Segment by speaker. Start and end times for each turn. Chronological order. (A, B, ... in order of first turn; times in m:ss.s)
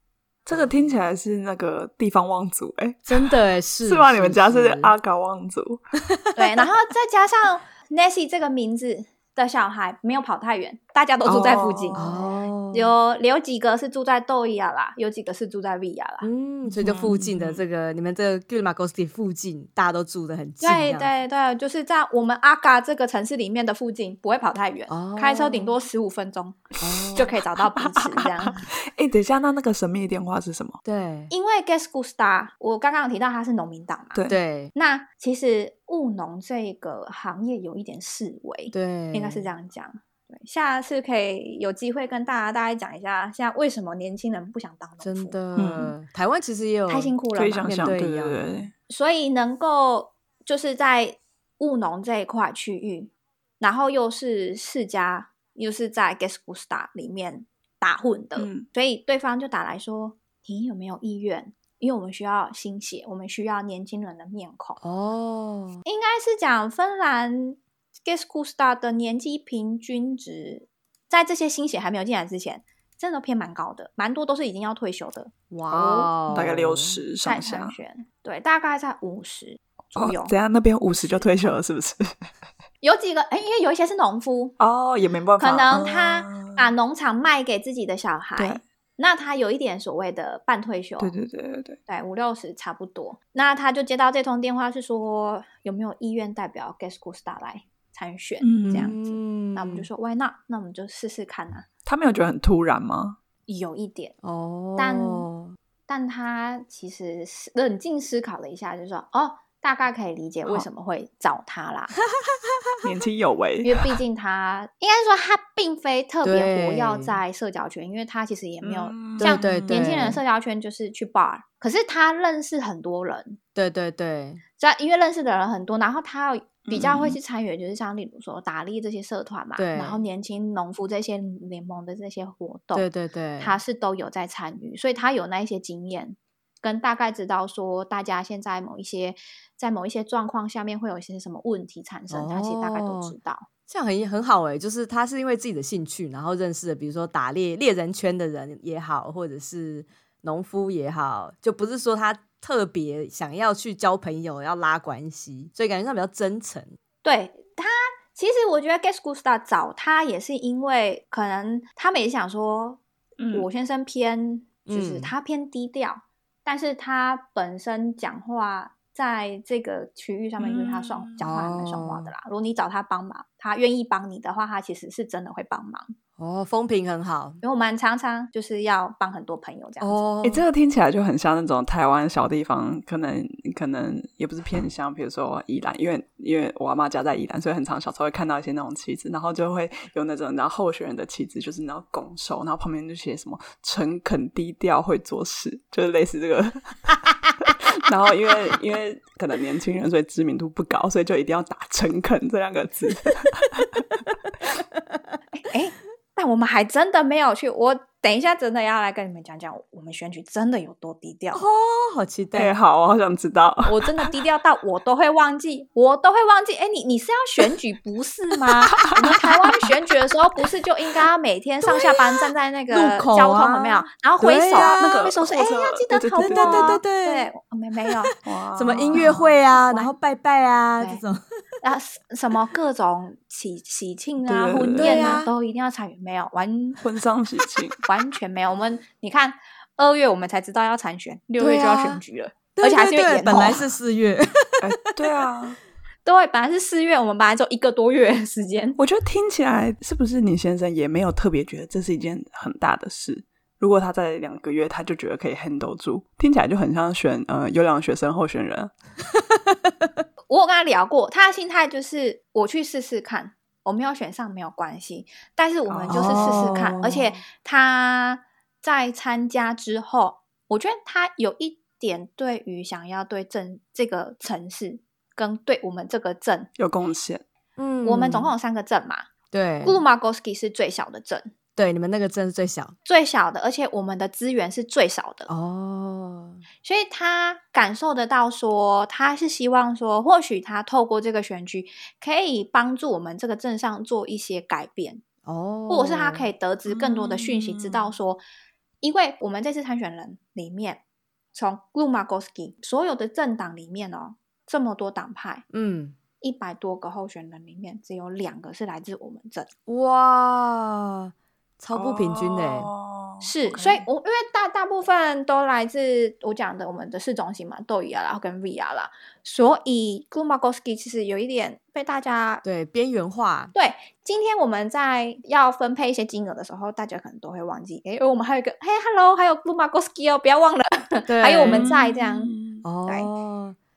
0:00.4-0:05.8 A
0:03.1-0:04.9 B
0:06.1-0:06.5 B
0:06.4-0:16.3 C
0:11.2-0:12.2 A
0:12.0-0:12.9 B
0:16.2-0:21.1 B
0:16.7-0:17.6 A
0:20.6-0:28.7 C
0:24.9-0:25.7 B
0:26.8-0:27.3 B
0:26.9-0:30.8 A
0:30.8-0:31.3 B
0:31.3-0:34.2 C
0:34.3-0:34.7 B
0:34.7-0:45.4 C
0:38.7-0:39.5 B
0:45.0-0:47.1 B
0:45.5-0:45.9 A
0:46.9-0:47.7 C
0:47.3-0:48.7 A
0:47.6-0:48.4 B
0:48.9-1:04.8 C
0:58.4-0:58.7 A
1:04.8-1:05.8 B
1:05.8-1:16.1 C
1:15.5-1:17.0 B
1:16.3-1:17.8 A
1:17.2-1:20.3 C
1:20.0-1:22.2 A
1:22.8-1:24.6 C
1:24.6-1:26.7 A
1:25.4-1:31.1 C
1:28.4-1:28.6 A
1:31.0-1:31.8 A
1:31.9-1:41.6 C
1:38.4-1:38.9 A
1:38.6-1:39.9 B
1:41.8-1:43.2 A
1:43.5-1:44.2 C
1:44.2-1:45.6 B
1:44.8-1:45.3 C
1:45.9-1:51.9 C
1:52.8-1:54.0 A
1:53.6-2:03.4 C
1:56.2-1:57.2 B
1:58.6-2:00.0 A
1:59.2-2:00.2 B
2:03.5-2:04.4 B
2:04.6-2:12.8 C
2:06.7-2:07.2 A
2:09.6-2:10.0 B
2:12.7-2:13.6 B
2:13.4-2:23.5 C
2:22.1-2:23.1 B
2:23.7-2:36.8 B
2:37.0-2:42.8 C
2:43.2-2:43.5 A
2:43.3-2:55.9 C
2:44.7-2:45.1 B
2:50.4-2:51.2 A
2:51.2-2:52.1 B
2:56.2-2:57.4 B
2:57.4-3:00.0 C
2:59.8-3:00.4 B
3:00.2-3:16.8 A
3:17.7-3:23.6 A
3:24.7-3:25.2 B
3:25.4-3:31.4 C
3:31.3-3:32.5 B
3:32.3-3:34.1 A
3:33.6-3:48.1 C
3:42.7-3:45.1 B
3:44.5-3:46.8 A
3:46.2-3:47.3 B
3:47.9-3:51.2 B
3:48.2-3:49.3 A
3:49.0-3:49.9 C
3:51.6-3:56.8 C
3:54.2-3:55.2 A
3:54.8-3:55.3 B
3:56.8-3:57.8 A
3:57.8-4:03.7 C
4:01.4-4:02.0 B
4:02.5-4:04.6 B
4:04.6-4:05.6 A
4:06.0-4:08.8 C
4:08.8-4:18.7 A
4:19.5-4:19.9 B
4:20.3-4:36.5 C
4:25.7-4:27.2 A
4:25.9-4:26.9 B
4:36.6-4:37.2 A
4:37.6-4:38.3 B
4:37.8-4:39.1 C
4:39.3-4:39.8 B
4:39.6-4:41.3 C
4:41.6-4:42.7 B
4:42.8-4:45.3 C
4:45.3-4:46.4 B
4:46.6-4:55.0 C
4:55.2-4:56.3 B
4:55.7-4:58.2 C
4:56.6-4:57.9 A
4:58.8-5:00.8 C
5:01.3-5:05.4 C
5:05.5-5:06.0 B
5:06.2-5:09.5 C
5:09.7-5:12.7 B
5:11.7-5:13.9 A
5:13.2-5:22.4 C
5:22.4-5:23.5 B
5:23.5-5:32.3 C
5:31.1-5:31.7 B
5:31.4-5:32.6 A
5:32.6-5:33.6 B